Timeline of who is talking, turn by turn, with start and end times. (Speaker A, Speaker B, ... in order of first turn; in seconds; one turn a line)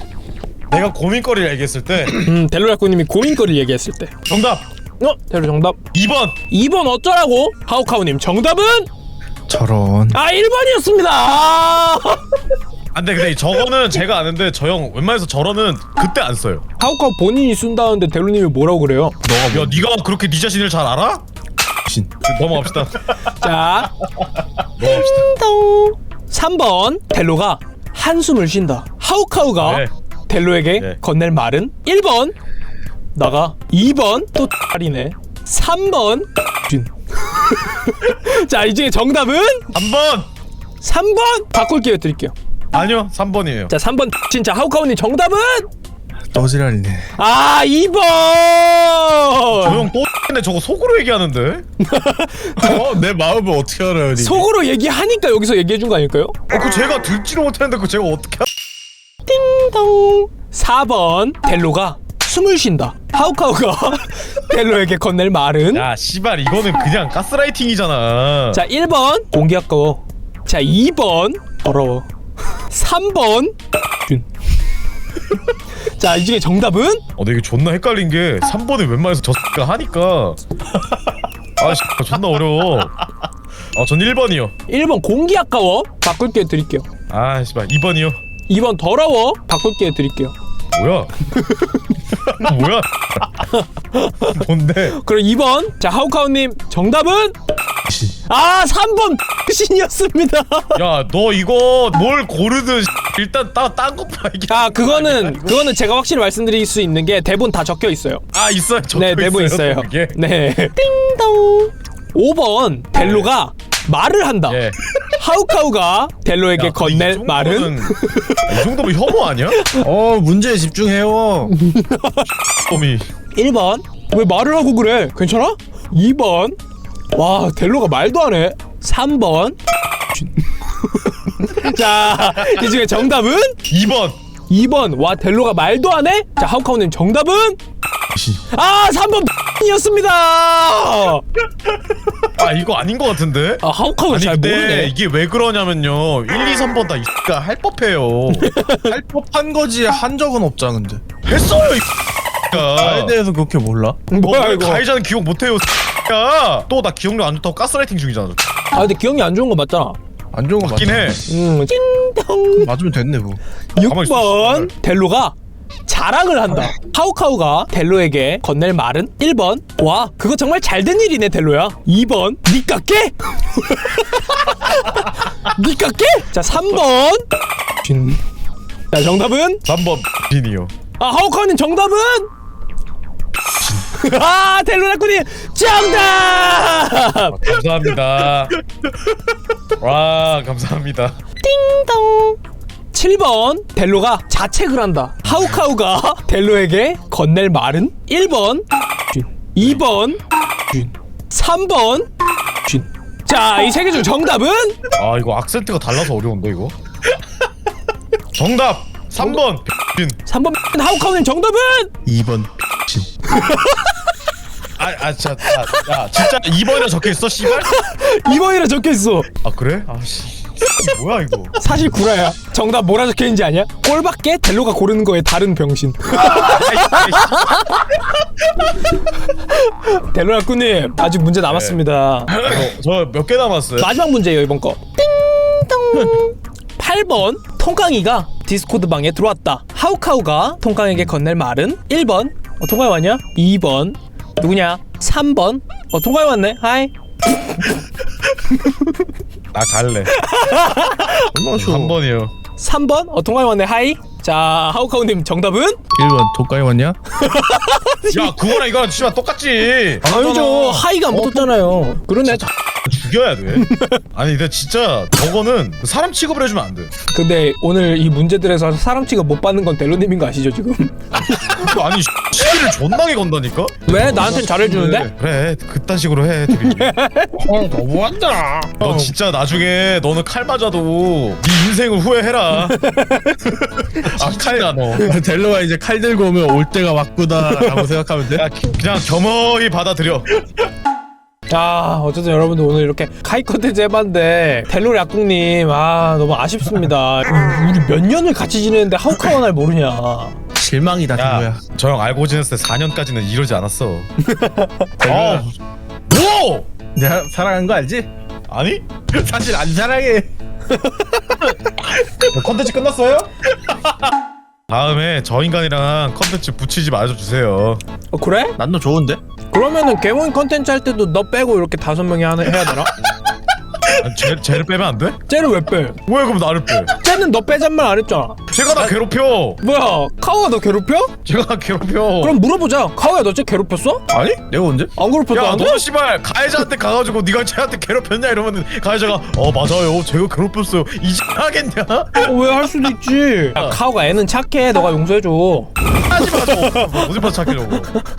Speaker A: 0.7-2.3
Speaker B: 2.1-4.1
Speaker A: 4.3-4.7
Speaker B: 5.0-5.8
Speaker A: 5.9-6.4
Speaker B: 6.5-8.9
Speaker C: 9.5-10.2
Speaker B: 10.1-12.2
Speaker A: 12.9-16.6
Speaker B: 16.8-19.2
Speaker C: 19.2-19.9
Speaker A: 19.5-21.2
Speaker A: 22.2-23.2
Speaker B: 23.3-23.9
Speaker A: 24.8-25.3
Speaker B: 24.8-32.4
Speaker A: 29.6-29.9
Speaker B: 33.1-39.7
Speaker A: 39.7-40.3
Speaker B: 40.8-42.3
Speaker A: 42.7-43.7
Speaker B: 43.7-45.7
Speaker C: 46.3-47.1
Speaker B: 47.2-49.9
Speaker A: 49.5-51.6
Speaker B: 51.8-52.9
Speaker C: 52.6-54.5
Speaker B: 54.2-56.4
Speaker A: 56.5-58.5
Speaker B: 59.3-65.9
Speaker A: 65.7-68.6
Speaker B: 68.5-72.1
Speaker B: 72.7-74.2
Speaker B: 75.8-77.0
Speaker A: 77.2-80.4
Speaker A: 81.6-83.0
Speaker A: 83.7-84.5
Speaker B: 84.7-86.9
Speaker A: 87.1-88.2
Speaker B: 88.5-90.3
Speaker A: 90.7-91.1
Speaker B: 91.4-92.2
Speaker A: 92.3-93.4
Speaker B: 94.0-94.4
Speaker A: 94.2-95.0
Speaker B: 94.9-97.3
Speaker B: 98.3-100.8
Speaker A: 100.8-105.7
Speaker B: 104.5-108.2
Speaker A: 108.3-110.2
Speaker B: 108.9-118.5
Speaker A: 113.0-113.3
Speaker A: 114.5-114.8
Speaker A: 116.6-119.6
Speaker B: 119.6-119.8
Speaker C: 119.8-121.5
Speaker B: 121.5-122.2
Speaker A: 122.7-123.1
Speaker B: 123.3-126.6
Speaker B: 127.1-129.6
Speaker B: 130.2-133.6
Speaker A: 133.7-134.2
Speaker B: 134.5-137.6
Speaker B: 138.4-141.2
Speaker A: 142.3-148.5
Speaker B: 143.6-144.9
Speaker B: 148.3-148.9
Speaker C: 148.7-151.0
Speaker A: 151.2-151.9
Speaker A: 152.5-153.2
Speaker C: 152.5-154.0
Speaker B: 154.1-154.8
Speaker A: 154.2-158.4
Speaker B: 158.7-160.0
Speaker C: 160.3-161.3
Speaker A: 160.6-161.2
Speaker B: 161.3-162.7
Speaker C: 162.6-163.4
Speaker B: 163.8-165.3
Speaker A: 163.8-164.7
Speaker B: 165.9-177.3
Speaker B: 177.8-178.2
Speaker B: 178.9-179.6
Speaker A: 179.7-180.7
Speaker B: 181.0-182.3
Speaker B: 183.7-187.4
Speaker A: 187.2-188.5
Speaker A: 189.8-191.2
Speaker B: 191.4-192.4
Speaker B: 192.9-202.1
Speaker B: 202.7-204.8
Speaker A: 205.0-206.8
Speaker A: 208.3-210.2
Speaker B: 210.3-211.9
Speaker C: 212.1-213.1
Speaker B: 213.2-214.1
Speaker A: 214.8-217.7
Speaker B: 215.5-216.2
Speaker B: 217.4-219.3
Speaker A: 219.4-221.6
Speaker B: 221.6-228.0
Speaker A: 226.1-227.6
Speaker B: 228.7-232.5
Speaker A: 231.4-231.8
Speaker A: 232.3-233.9
Speaker B: 233.8-247.7
Speaker B: 248.4-248.9
Speaker A: 249.5-250.1
Speaker B: 250.1-251.3
Speaker C: 251.2-252.0
Speaker A: 251.5-252.3
Speaker B: 252.6-255.8
Speaker C: 255.9-257.0
Speaker B: 257.1-258.6
Speaker A: 258.1-261.5
Speaker B: 260.1-262.5
Speaker A: 262.2-266.9
Speaker B: 263.6-264.0
Speaker B: 267.1-271.7
Speaker A: 271.2-274.0
Speaker B: 273.9-275.1
Speaker C: 274.0-275.1
Speaker A: 275.1-276.9
Speaker B: 276.5-277.5
Speaker C: 277.4-279.1
Speaker A: 278.8-282.8
Speaker B: 282.6-283.5
Speaker C: 283.9-288.4
Speaker A: 284.0-285.1
Speaker A: 288.3-290.3
Speaker B: 291.5-300.4
Speaker C: 300.6-301.6
Speaker A: 301.1-304.1
Speaker C: 304.4-305.5
Speaker A: 305.0-305.5
Speaker A: 306.1-306.7
Speaker C: 306.9-308.1
Speaker A: 308.5-308.9
Speaker C: 309.1-310.3
Speaker A: 312.3-313.3
Speaker A: 314.7-317.8
Speaker B: 318.1-318.6
Speaker C: 318.6-319.2
Speaker B: 319.5-322.9
Speaker A: 324.0-325.2
Speaker B: 325.3-326.0
Speaker A: 326.1-326.9
Speaker B: 326.9-328.4
Speaker A: 328.5-329.6
Speaker B: 329.6-331.1
Speaker A: 331.2-332.4
Speaker B: 332.2-334.0
Speaker C: 334.1-334.9
Speaker B: 335.0-335.8
Speaker A: 335.3-342.4
Speaker B: 342.2-347.1
Speaker A: 346.0-347.9